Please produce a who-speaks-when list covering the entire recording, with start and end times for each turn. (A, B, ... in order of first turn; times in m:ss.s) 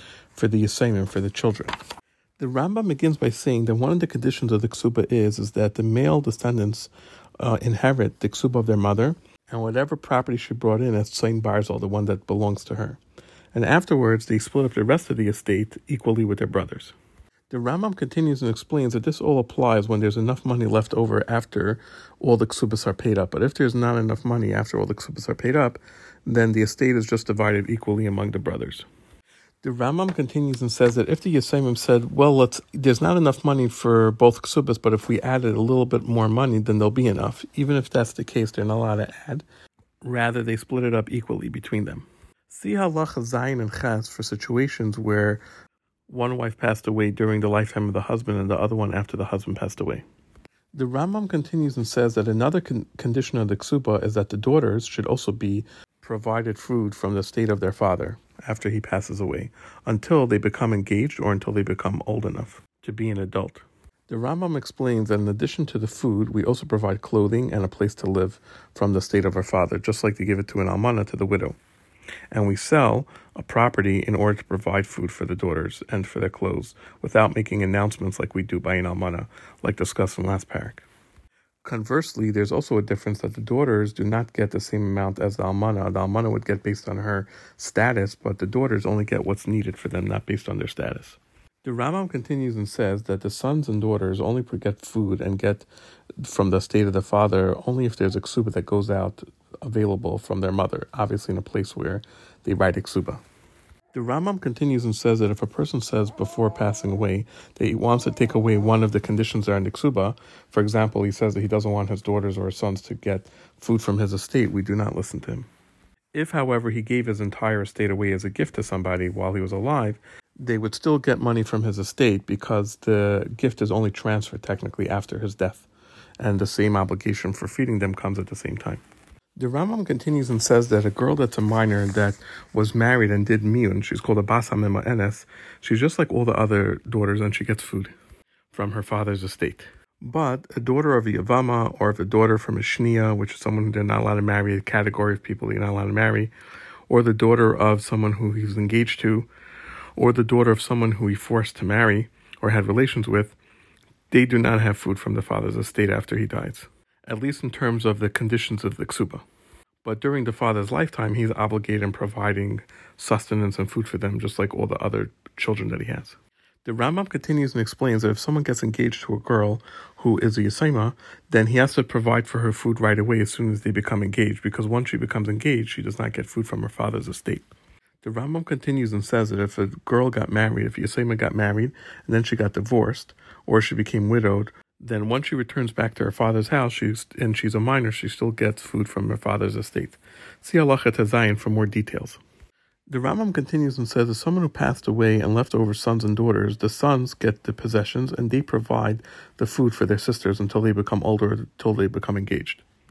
0:00.3-0:01.7 A
0:02.4-0:13.0 A
0:13.5-0:16.9 A
0:17.5-0:28.8 A
0:29.6-0:39.4 A
0:40.0-0:45.4 A
0:46.1-0:50.0 A
0:50.7-1:11.6 A
1:12.3-1:20.8 A
1:21.6-1:35.7 A
1:36.2-1:43.2 A
1:43.9-1:55.5 A
1:56.1-2:05.7 A
2:06.2-2:08.8 A
2:09.4-2:17.9 A
2:18.5-2:26.3 A
2:26.9-2:29.3 A
2:30.0-2:33.4 A
2:34.1-2:39.2 A
2:39.8-2:57.5 A
2:58.0-3:12.2 A
3:12.9-3:22.6 A